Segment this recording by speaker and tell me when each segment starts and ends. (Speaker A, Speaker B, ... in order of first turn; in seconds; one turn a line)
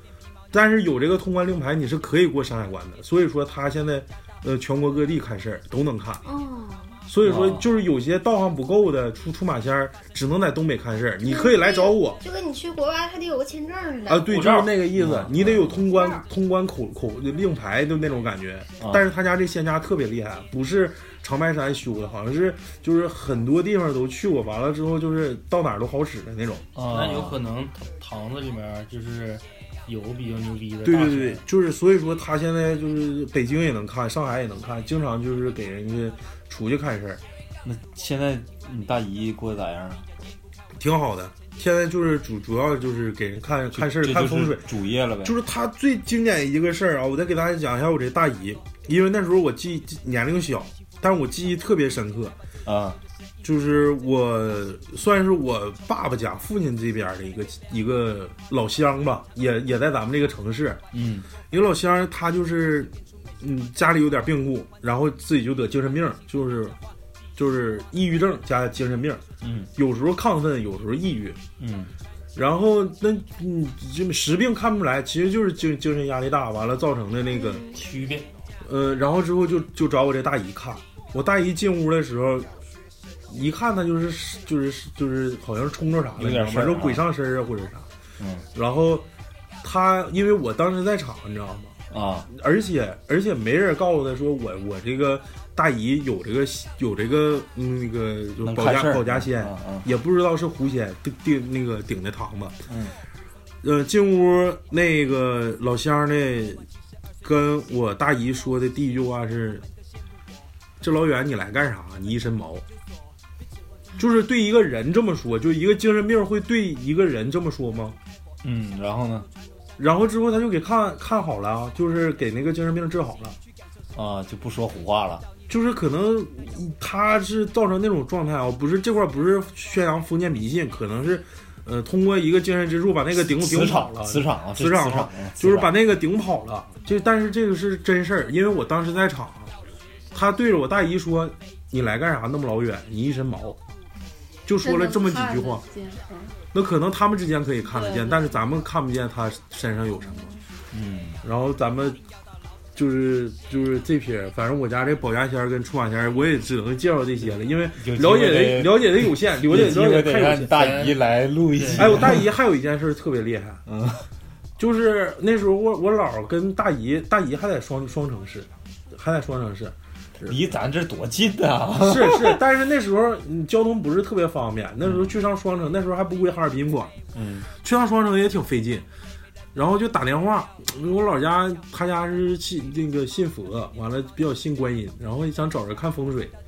Speaker A: 0.5-6.2
Speaker B: 6.2-7.0
Speaker A: 7.1-12.2
Speaker C: 7.2-7.7
Speaker B: 11.2-14.4
Speaker A: 14.1-26.7
Speaker D: 14.2-14.7
Speaker C: 14.9-15.8
Speaker B: 15.9-16.2
Speaker C: 18.8-19.1
Speaker C: 26.8-27.4
Speaker D: 26.9-31.4
Speaker A: 30.8-37.2
Speaker C: 37.6-40.1
Speaker A: 40.8-44.7
Speaker C: 43.7-45.4
Speaker A: 45.2-52.4
Speaker C: 52.7-53.0
Speaker A: 53.4-60.8
Speaker C: 60.9-61.3
Speaker A: 61.5-66.8
Speaker A: 67.4-69.2
Speaker C: 69.4-69.7
Speaker A: 69.8-71.4
Speaker C: 71.6-71.9
Speaker A: 72.3-77.8
Speaker B: 77.3-77.8
Speaker D: 77.7-78.3
Speaker A: 78.6-82.5
Speaker A: 83.3-87.9
Speaker C: 86.2-87.0
Speaker C: 88.2-88.5
Speaker A: 88.5-89.1
Speaker A: 89.6-91.8
Speaker C: 91.9-92.3
Speaker A: 92.3-102.6
Speaker C: 98.4-99.8
Speaker C: 102.7-103.0
Speaker A: 103.6-106.7
Speaker A: 107.2-109.7
Speaker A: 110.8-112.7
Speaker A: 114.0-118.0
Speaker C: 118.4-119.3
Speaker A: 119.8-123.4
Speaker C: 124.0-125.3
Speaker A: 125.5-139.5
Speaker C: 133.2-135.7
Speaker A: 140.1-143.6
Speaker A: 144.5-145.7
Speaker E: 144.6-146.4
Speaker A: 146.5-150.3
Speaker E: 147.7-148.3
Speaker C: 150.7-151.2
Speaker A: 151.2-152.0
Speaker A: 152.8-160.6
Speaker C: 157.8-162.3
Speaker D: 160.5-161.0
Speaker D: 161.5-161.9
Speaker A: 161.7-163.6
Speaker C: 163.7-164.1
Speaker A: 164.6-170.5
Speaker C: 170.2-172.4
Speaker A: 171.8-176.9
Speaker C: 174.8-175.1
Speaker C: 177.2-177.5
Speaker A: 177.6-178.8
Speaker A: 179.5-186.3